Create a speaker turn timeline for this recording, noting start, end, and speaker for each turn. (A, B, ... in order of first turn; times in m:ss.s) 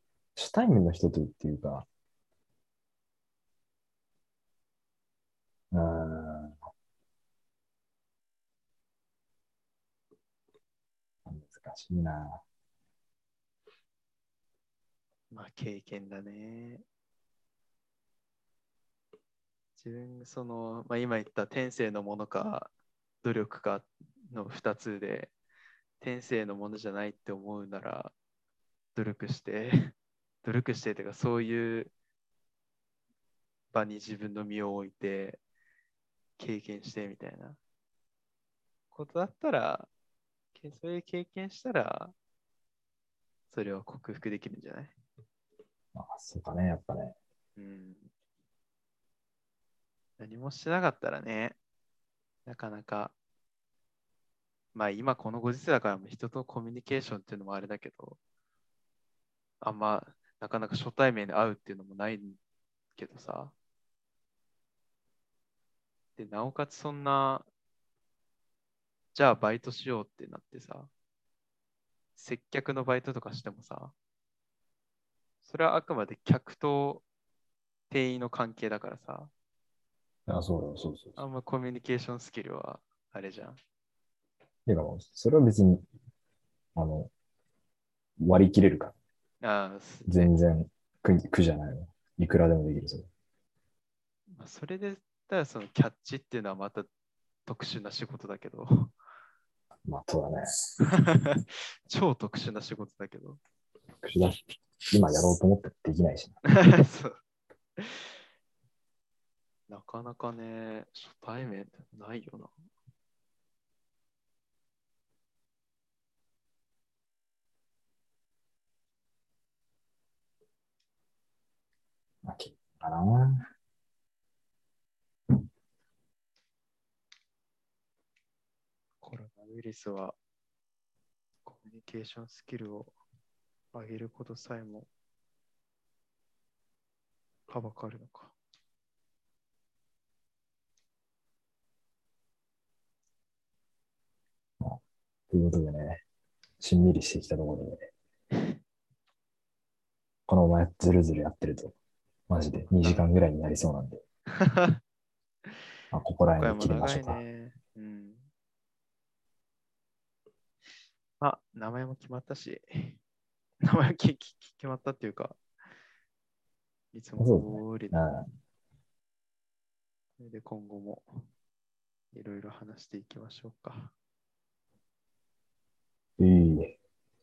0:00.4-0:01.9 A
0:05.7-0:06.6 A
0:11.3-0:12.4 A
0:15.3-0:16.8 B
0:19.8-0:22.7 B
0:23.2-0:25.3 B
0:26.0-0:28.1 B
0:29.0-0:31.9 B
0:33.7-0:35.4 B
0:36.4-0:37.6 B
0:38.9-0:39.9 B
0:40.6-0:42.1 B
0:43.5-0:45.0 B
0:46.0-0:47.2 A
0:47.6-0:48.1 B
0:50.2-0:51.6 B
0:52.5-0:53.2 B
0:54.8-0:58.2 B
0:59.6-1:02.4 B
1:03.0-1:03.5 B
1:06.2-1:07.5 B
1:09.1-1:10.9 B
1:12.2-1:13.9 B
1:15.4-1:17.0 B
1:17.9-1:19.3 B
1:20.3-1:21.2 A
1:21.2-1:23.6 B
1:24.7-1:25.8 A
1:26.8-1:27.1 A
1:28.2-1:28.9 A
1:29.4-1:30.3 B
1:30.1-1:33.1 A
1:34.3-1:36.9 B
1:37.5-1:38.9 B
1:39.8-1:40.5 A
1:40.9-1:43.4 B
1:44.0-1:46.4 A
1:46.4-1:47.2 B
1:47.8-1:48.1 B
1:49.7-1:52.5 B
2:02.2-2:03.5 A
2:09.0-2:10.2 B
2:11.4-2:12.9 B
2:13.7-2:14.9 B
2:17.5-2:18.3 B
2:24.6-2:26.0 A
2:26.6-2:27.9 A
2:30.3-2:31.8 A
2:32.3-2:34.0 A
2:32.7-2:33.1 B
2:34.4-2:34.8 B
2:35.9-2:37.2 A
2:36.4-2:38.3 B
2:41.2-2:43.0 B
2:43.6-2:45.4 B
2:46.9-2:48.1 B
2:47.2-2:48.2 A
2:50.2-2:51.2 B
2:52.1-2:53.9 B
2:56.2-2:56.8 A